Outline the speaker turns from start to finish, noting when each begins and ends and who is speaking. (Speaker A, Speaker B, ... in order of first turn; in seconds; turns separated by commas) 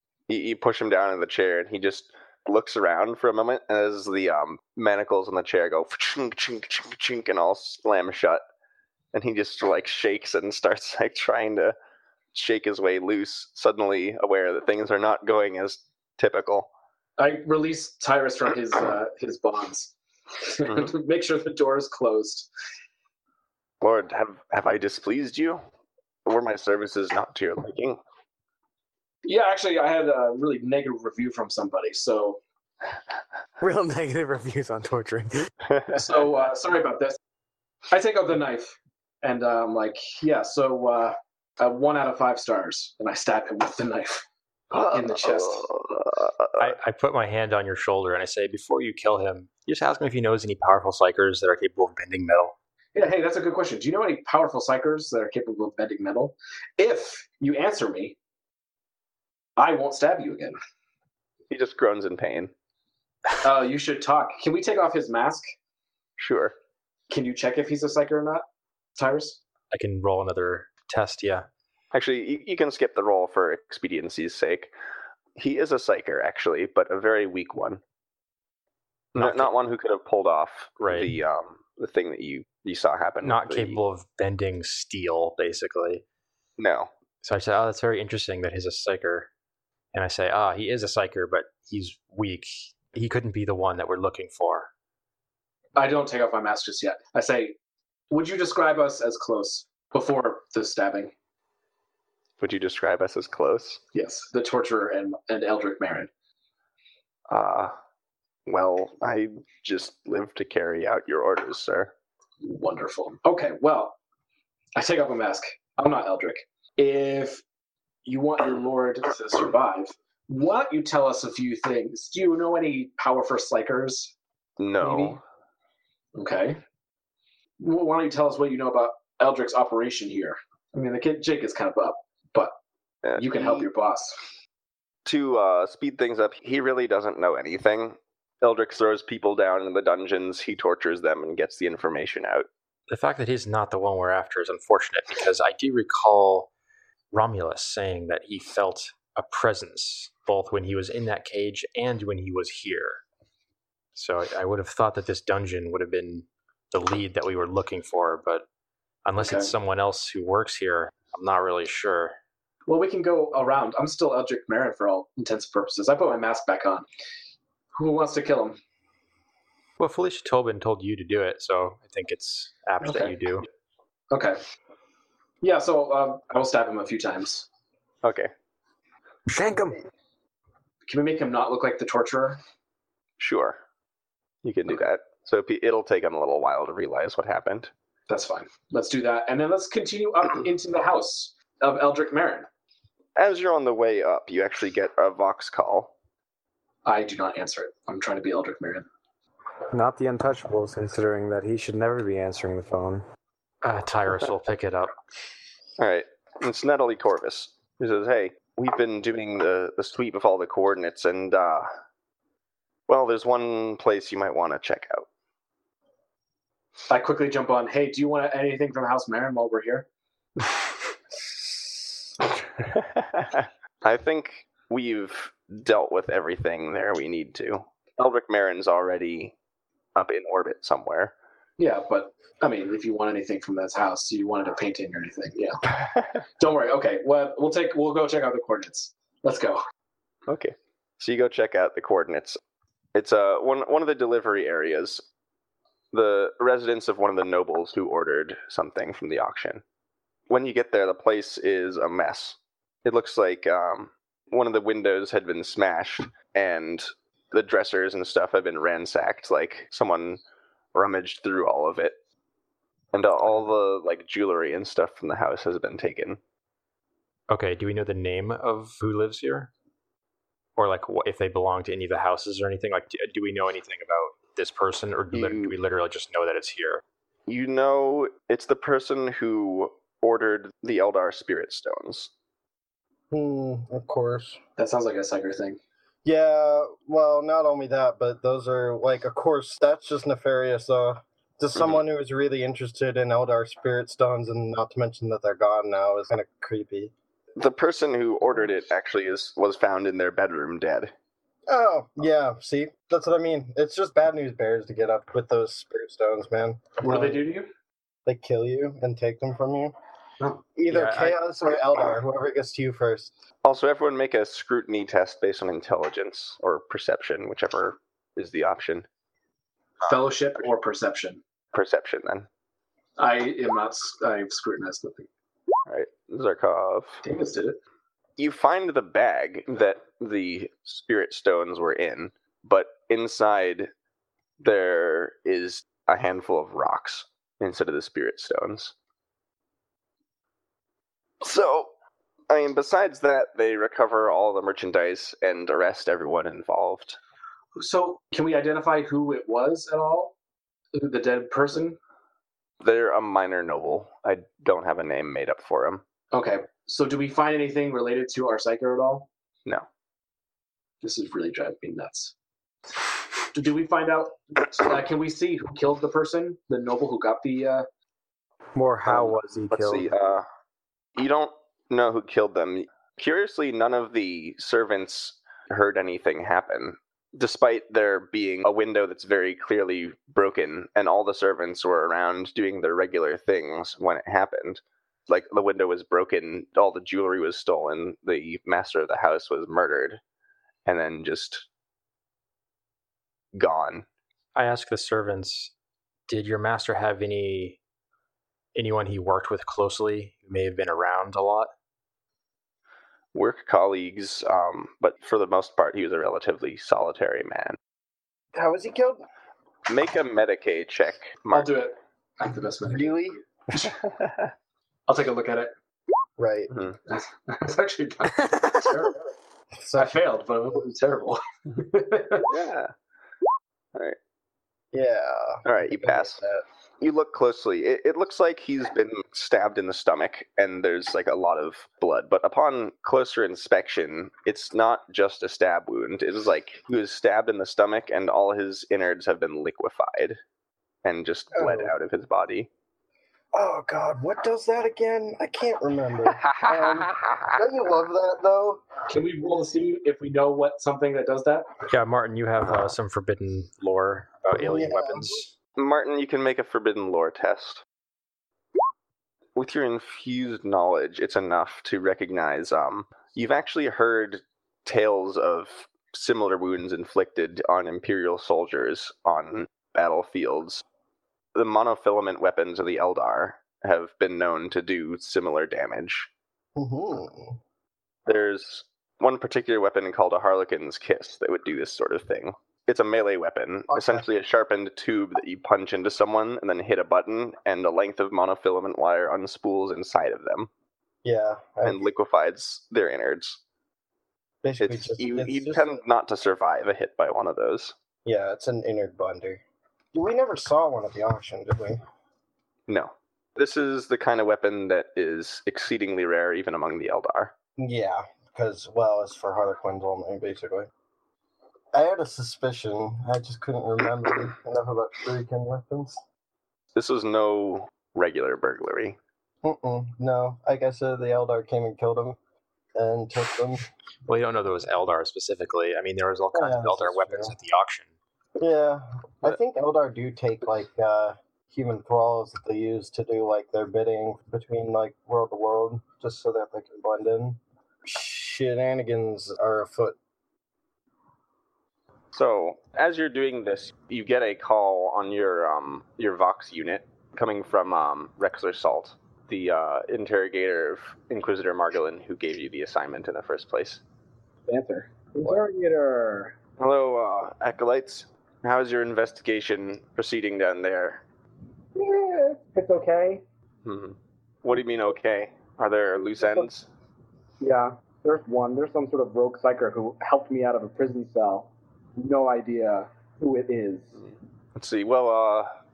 Speaker A: 0.3-8.4, Speaker A: 9.1-11.7, Speaker A: 12.3-16.7, Speaker B: 17.2-22.5, Speaker A: 20.6-20.9, Speaker A: 23.8-25.6, Speaker A: 26.2-28.0, Speaker B: 29.2-32.4, Speaker C: 33.6-35.5, Speaker A: 35.7-36.0, Speaker B: 35.9-37.2, Speaker B: 37.9-44.2, Speaker A: 44.7-46.7, Speaker B: 44.9-45.7, Speaker D: 46.6-52.5, Speaker B: 52.9-58.2, Speaker B: 59.6-60.5, Speaker A: 61.5-62.5, Speaker B: 63.4-65.4, Speaker A: 66.2-66.5, Speaker B: 67.1-68.4, Speaker B: 69.0-69.4, Speaker D: 69.7-71.5, Speaker A: 71.9-74.7, Speaker A: 75.3-77.8, Speaker A: 79.1-83.8, Speaker D: 79.2-79.5, Speaker D: 80.8-81.1, Speaker D: 83.2-86.0, Speaker A: 86.6-86.9, Speaker D: 87.2-89.3, Speaker D: 89.9-94.7, Speaker B: 95.8-97.6, Speaker B: 98.1-101.1, Speaker A: 102.4-103.8, Speaker B: 103.9-106.1, Speaker A: 107.3-107.7, Speaker A: 108.5-111.9, Speaker B: 112.4-114.0, Speaker B: 114.8-117.4, Speaker B: 118.0-124.1, Speaker A: 124.6-125.2, Speaker B: 124.8-125.2, Speaker B: 126.2-126.6, Speaker B: 127.6-132.5, Speaker A: 133.0-133.7, Speaker B: 133.2-134.2, Speaker A: 135.0-142.5, Speaker D: 142.9-146.5, Speaker D: 147.1-153.0, Speaker D: 153.9-158.4, Speaker D: 159.0-162.1, Speaker B: 159.2-159.5, Speaker B: 162.7-166.8, Speaker B: 167.7-168.6, Speaker D: 169.8-173.4, Speaker B: 172.8-173.1, Speaker B: 174.1-174.4, Speaker B: 175.4-177.5, Speaker A: 178.0-178.3, Speaker C: 179.3-179.8, Speaker B: 180.9-182.4, Speaker A: 183.2-183.6, Speaker A: 184.4-187.7, Speaker B: 188.1-192.5, Speaker A: 193.2-195.9, Speaker B: 196.8-198.8, Speaker C: 199.7-203.0, Speaker D: 203.6-204.9, Speaker A: 205.8-211.7, Speaker A: 212.9-215.1, Speaker B: 216.9-219.9, Speaker A: 222.6-229.3, Speaker A: 229.9-231.1, Speaker B: 231.6-235.7, Speaker A: 235.8-236.1, Speaker B: 236.4-239.6, Speaker A: 240.3-242.4, Speaker A: 242.9-245.0, Speaker A: 245.9-249.6, Speaker A: 250.3-260.2, Speaker A: 260.7-261.9, Speaker A: 262.9-266.2, Speaker D: 267.3-269.5, Speaker D: 270.6-276.8, Speaker A: 275.1-275.5, Speaker A: 277.3-282.1, Speaker E: 283.1-284.4, Speaker B: 284.6-285.6, Speaker E: 286.0-296.9, Speaker A: 297.4-300.9, Speaker E: 301.5-307.2, Speaker B: 306.8-307.5, Speaker E: 308.1-309.7, Speaker E: 310.6-313.1, Speaker D: 310.7-311.1, Speaker A: 313.4-318.9, Speaker B: 319.9-321.2, Speaker A: 321.5-322.3, Speaker B: 323.0-325.1, Speaker A: 325.7-327.0, Speaker B: 327.0-327.6, Speaker A: 328.2-333.7, Speaker A: 334.4-338.7, Speaker A: 341.2-341.7, Speaker A: 342.3-347.0, Speaker B: 347.6-350.1, Speaker B: 350.7-351.8, Speaker A: 352.6-355.8, Speaker B: 356.1-359.1, Speaker B: 360.8-362.1, Speaker B: 363.3-367.6, Speaker C: 368.5-369.9, Speaker A: 368.8-370.2, Speaker A: 370.9-390.0, Speaker A: 390.6-391.5, Speaker A: 393.3-393.8, Speaker D: 394.3-395.5, Speaker D: 396.1-397.6, Speaker D: 398.5-401.5, Speaker A: 403.1-407.6, Speaker E: 408.3-409.0, Speaker A: 409.7-411.5, Speaker B: 411.3-413.1, Speaker E: 412.6-413.2, Speaker A: 413.6-414.2, Speaker B: 414.9-415.5, Speaker E: 416.2-416.5, Speaker A: 416.5-416.8, Speaker B: 416.9-419.1, Speaker C: 418.2-418.6, Speaker E: 419.6-420.0, Speaker B: 419.7-422.3, Speaker A: 422.3-422.7, Speaker E: 424.7-426.4, Speaker A: 425.4-426.2, Speaker A: 426.8-440.2, Speaker A: 440.8-442.5, Speaker E: 441.3-441.7, Speaker E: 443.3-448.7, Speaker A: 446.1-447.4, Speaker B: 448.9-451.5, Speaker D: 451.7-455.3, Speaker A: 452.4-452.7, Speaker E: 454.3-455.2, Speaker A: 455.6-457.6, Speaker A: 459.4-470.6, Speaker A: 471.3-476.1, Speaker E: 476.6-477.4, Speaker A: 478.1-490.5, Speaker E: 483.7-484.0, Speaker E: 491.0-491.8, Speaker A: 491.6-493.4, Speaker E: 494.4-495.8, Speaker A: 494.6-497.8, Speaker E: 498.0-499.4, Speaker E: 499.9-501.8, Speaker A: 502.7-507.3, Speaker E: 507.6-510.7, Speaker E: 511.7-516.0, Speaker A: 516.7-519.0, Speaker E: 519.4-522.2, Speaker E: 522.7-523.7, Speaker D: 524.1-527.9, Speaker E: 526.3-527.3, Speaker E: 528.4-540.0, Speaker A: 542.1-553.8, Speaker B: 554.5-556.4, Speaker A: 556.6-561.0, Speaker B: 561.8-563.2, Speaker A: 563.6-566.7, Speaker B: 567.4-574.0, Speaker A: 574.0-575.5